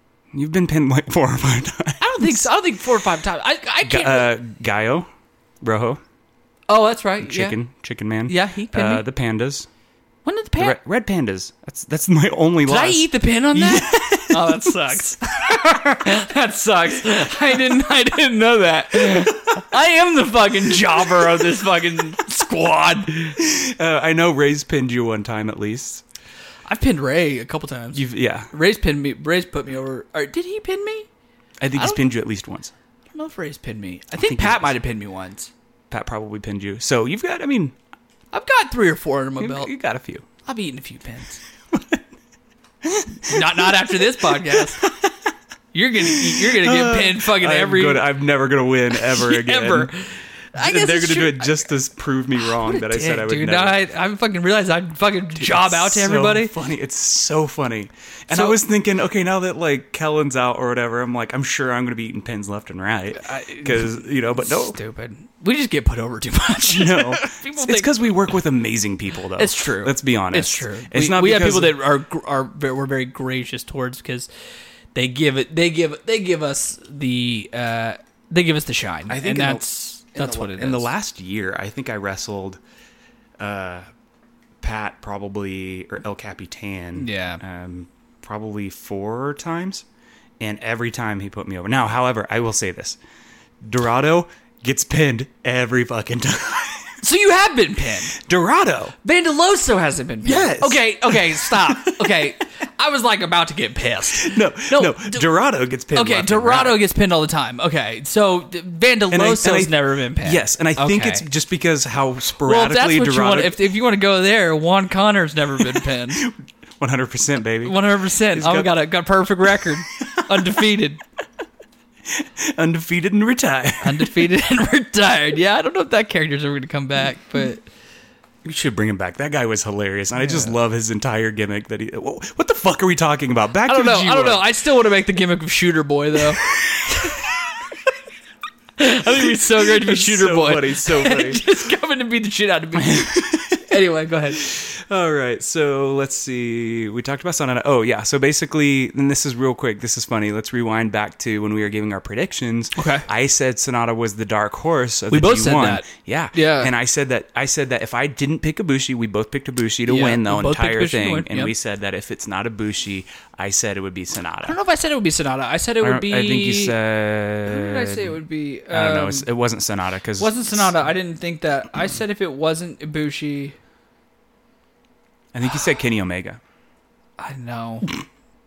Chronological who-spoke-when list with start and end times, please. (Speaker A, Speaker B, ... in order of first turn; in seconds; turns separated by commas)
Speaker A: 0.3-2.5, Speaker B: 2.0-4.3, Speaker A: 3.8-5.1, Speaker A: 5.6-6.0, Speaker B: 6.7-7.6, Speaker A: 7.2-9.7, Speaker B: 8.3-9.0, Speaker B: 10.2-10.8, Speaker A: 10.6-14.9, Speaker B: 12.6-23.4, Speaker A: 23.2-26.0, Speaker B: 26.6-31.1, Speaker A: 27.9-28.5, Speaker A: 31.6-32.7, Speaker B: 31.7-32.0, Speaker B: 33.1-35.5, Speaker A: 34.2-34.7, Speaker A: 35.9-37.8, Speaker B: 38.3-39.7, Speaker A: 39.4-40.2, Speaker B: 40.4-41.4, Speaker A: 41.7-42.0, Speaker A: 42.8-45.1, Speaker B: 43.2-44.8, Speaker B: 45.7-48.0, Speaker A: 46.0-49.9, Speaker B: 48.9-51.7, Speaker A: 50.5-53.8, Speaker B: 52.4-56.5, Speaker A: 55.4-64.8, Speaker B: 58.3-58.6, Speaker B: 63.2-68.3, Speaker A: 66.6-71.8, Speaker B: 69.3-74.3, Speaker B: 74.9-80.9, Speaker A: 79.1-82.6, Speaker A: 83.4-83.8, Speaker A: 84.6-89.8, Speaker B: 87.0-87.4, Speaker A: 90.4-93.0, Speaker A: 93.6-97.0, Speaker B: 97.0-98.1, Speaker A: 98.1-99.0, Speaker B: 99.0-105.2, Speaker A: 100.2-102.1, Speaker A: 104.1-106.8, Speaker B: 105.9-111.2, Speaker A: 109.1-113.5, Speaker B: 112.4-116.2, Speaker A: 116.2-118.7, Speaker B: 117.6-121.0, Speaker A: 120.0-120.5, Speaker A: 122.1-124.3, Speaker B: 123.8-127.6, Speaker A: 128.4-134.5, Speaker B: 130.2-130.5, Speaker B: 133.7-137.2, Speaker A: 136.5-137.6, Speaker B: 138.8-144.4, Speaker A: 139.4-141.4, Speaker A: 142.8-143.7, Speaker A: 144.3-164.6, Speaker B: 152.8-153.1, Speaker B: 155.1-156.7, Speaker B: 159.8-161.5, Speaker B: 164.4-166.8, Speaker A: 165.8-168.2, Speaker B: 167.4-169.3, Speaker A: 168.7-170.8, Speaker B: 170.2-173.6, Speaker A: 175.3-176.4, Speaker B: 177.2-177.9